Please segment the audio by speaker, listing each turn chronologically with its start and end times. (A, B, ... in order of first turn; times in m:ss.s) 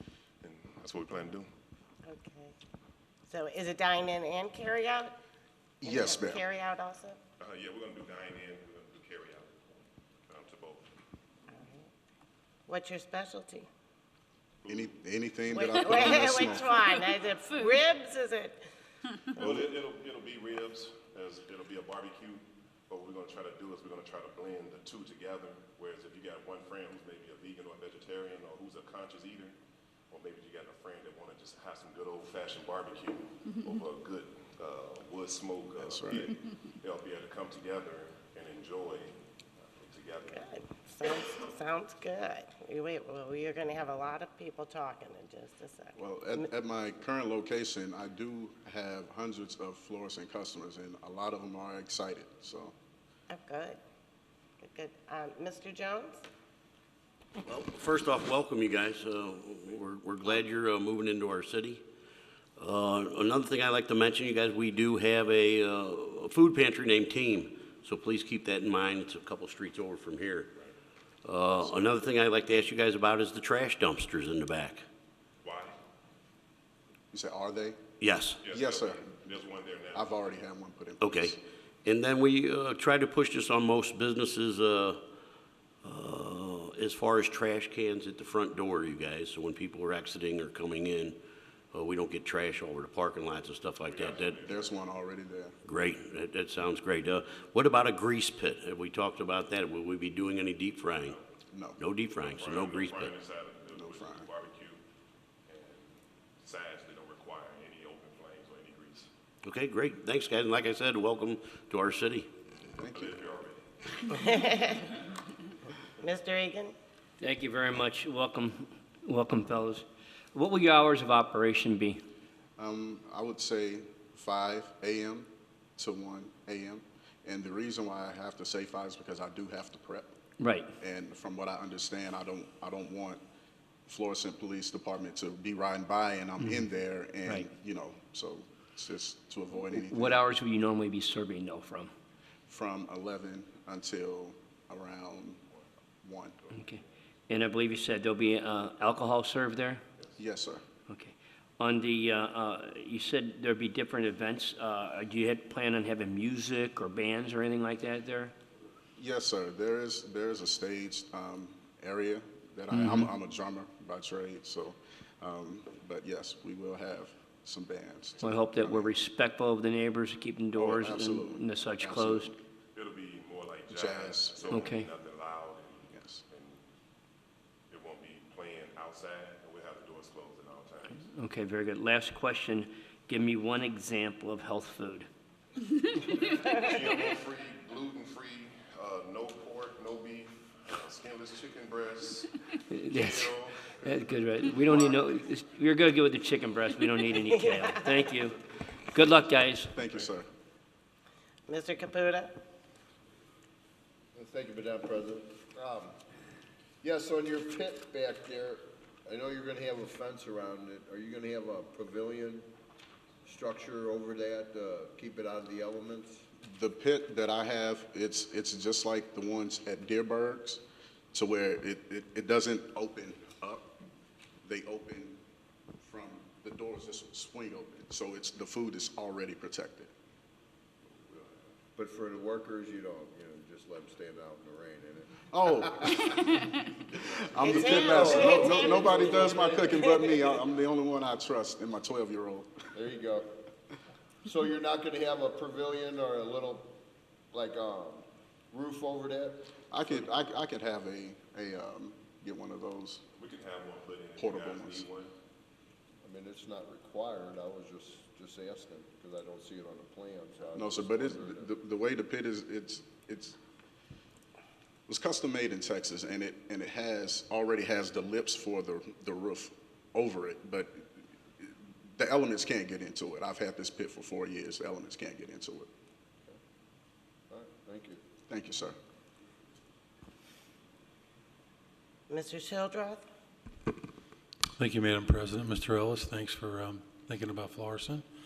0:00.4-0:01.5 A
0:02.0-0:02.5 B
0:03.3-0:05.2 B
0:05.8-0:06.4 C
0:05.8-0:07.2 B
0:07.4-0:10.8 A
0:11.5-0:11.9 B
0:12.7-0:13.7 B
0:14.6-0:14.9 A
0:14.7-0:16.9 C
0:15.5-0:18.6 B
0:19.4-0:29.6 A
0:19.4-0:19.7 C
0:30.1-0:39.1 A
0:35.8-0:36.3 C
0:39.7-0:40.6 A
0:40.3-0:46.5 B
0:46.0-0:52.7 C
0:53.3-0:53.8 B
0:54.6-0:56.2 B
0:57.5-1:01.8 D
1:02.6-1:10.5 D
1:11.2-1:14.8 D
1:15.4-1:15.7 A
1:17.1-1:17.8 C
1:18.0-1:18.4 D
1:18.4-1:20.3 A
1:18.5-1:19.2 C
1:19.9-1:21.4 C
1:21.0-1:25.0 D
1:25.8-1:31.2 D
1:31.7-1:34.4 D
1:33.8-1:34.7 A
1:34.3-1:35.6 C
1:35.6-1:41.1 D
1:40.9-1:41.2 A
1:41.5-1:41.8 C
1:41.8-1:43.1 D
1:42.1-1:44.8 A
1:43.7-1:44.3 C
1:45.5-1:49.1 A
1:49.4-1:52.3 D
1:52.8-1:53.2 C
1:52.9-1:53.6 A
1:54.1-1:55.0 B
1:56.0-1:56.7 B
1:57.2-2:02.0 E
2:02.6-2:10.1 C
2:10.4-2:10.7 E
2:10.8-2:13.2 C
2:13.9-2:20.2 C
2:19.7-2:21.9 E
2:22.5-2:25.4 C
2:26.0-2:26.5 C
2:26.5-2:29.8 E
2:30.2-2:30.6 C
2:30.9-2:38.3 E
2:39.0-2:49.0 C
2:42.7-2:43.1 E
2:48.2-2:52.3 E
2:50.6-2:52.4 C
2:52.7-2:56.6 A
2:53.7-2:54.7 C
2:54.5-2:54.9 E
2:55.9-2:56.2 C
2:57.7-3:01.0 A
3:01.0-3:05.1 E
3:06.0-3:12.3 A
3:12.7-3:19.7 E
3:12.9-3:15.1 A
3:17.3-3:18.0 B
3:19.7-3:20.3 C
3:19.8-3:20.1 A
3:21.5-3:22.4 B
3:24.1-3:25.9 F
3:26.8-3:32.5 F
3:33.2-3:36.2 F
3:36.4-3:43.7 C
3:44.4-3:45.2 C
3:45.8-3:49.9 C
3:51.8-3:55.1 F
3:55.3-3:56.2 C
3:55.7-3:56.1 F
3:57.0-4:02.5 C
3:57.1-3:59.7 F
3:57.4-4:00.1 B
4:02.7-4:03.3 F
4:04.2-4:06.8 F
4:07.3-4:10.0 F
4:09.7-4:13.0 C
4:13.2-4:15.1 A
4:14.2-4:14.8 C
4:16.0-4:21.5 F
4:20.5-4:23.4 C
4:24.9-4:35.7 C
4:37.3-4:38.0 F
4:38.3-4:38.8 C
4:42.1-4:43.0 B
4:44.6-4:48.0 G